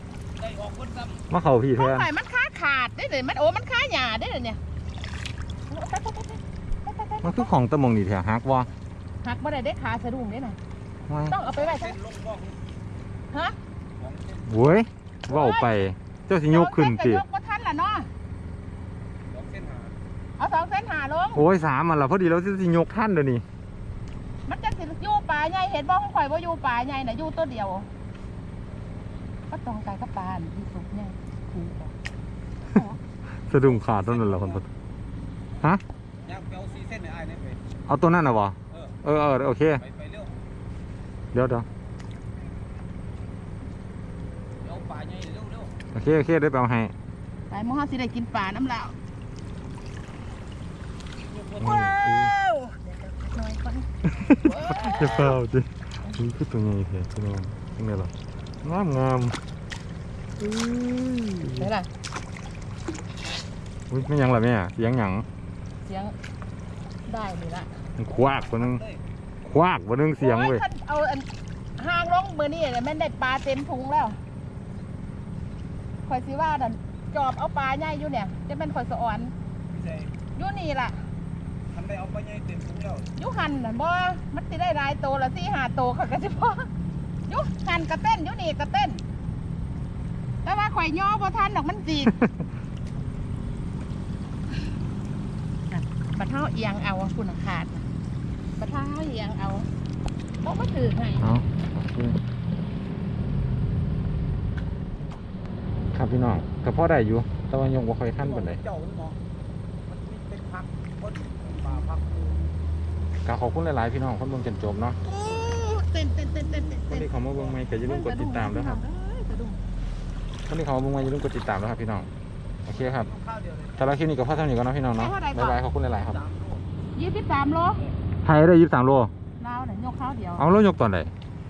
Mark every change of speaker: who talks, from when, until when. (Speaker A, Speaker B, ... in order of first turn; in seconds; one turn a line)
Speaker A: 0.4-1.2
Speaker B: 1.3-2.1
Speaker C: 1.8-4.6
Speaker C: 5.7-7.5
Speaker B: 7.2-8.7
Speaker C: 9.2-10.6
Speaker B: 11.1-11.3
Speaker C: 11.3-12.0
Speaker A: 11.4-12.6
Speaker A: 14.0-14.6
Speaker B: 14.5-17.2
Speaker C: 15.3-15.8
Speaker C: 16.5-18.1
Speaker A: 19.3-20.0
Speaker C: 20.4-21.4
Speaker B: 21.4-23.4
Speaker C: 24.5-27.9
Speaker C: 29.5-31.9
Speaker C: 32.7-33.0
Speaker B: 33.3-34.7
Speaker A: 33.6-34.6
Speaker A: 36.2-37.6
Speaker B: 37.9-39.8
Speaker A: 38.7-39.0
Speaker A: 39.8-40.3
Speaker B: 41.3-41.7
Speaker A: 44.6-45.7
Speaker B: 45.9-46.9
Speaker C: 47.5-48.9
Speaker A: 51.3-52.7
Speaker B: 51.6-52.4
Speaker C: 52.8-53.9
Speaker B: 54.2-58.1
Speaker B: 58.6-59.4
Speaker B: 60.4-61.7
Speaker C: 61.6-61.9
Speaker B: 63.9-65.3
Speaker C: 65.8-66.1
Speaker C: 67.1-67.7
Speaker B: 68.0-68.8
Speaker A: 68.1-69.0
Speaker B: 69.4-70.6
Speaker C: 70.2-74.2
Speaker C: 76.1-79.3
Speaker A: 79.7-80.1
Speaker C: 80.4-81.0
Speaker A: 81.7-83.1
Speaker C: 83.2-86.7
Speaker C: 87.3-89.0
Speaker C: 90.4-92.2
Speaker C: 95.7-97.8
Speaker C: 98.6-99.7
Speaker C: 100.4-101.2
Speaker B: 101.2-102.2
Speaker B: 105.9-108.6
Speaker A: 108.2-109.2
Speaker A: 109.9-112.4
Speaker B: 113.2-115.0
Speaker C: 115.0-117.1
Speaker B: 116.9-118.8
Speaker A: 117.3-117.6
Speaker C: 117.7-119.6
Speaker B: 120.5-122.1
Speaker B: 122.7-123.1
Speaker A: 122.7-123.8
Speaker B: 123.8-126.2
Speaker C: 124.9-125.6
Speaker A: 126.0-126.6
Speaker C: 127.0-127.9
Speaker B: 128.2-129.1
Speaker C: 129.4-130.4
Speaker B: 130.4-131.1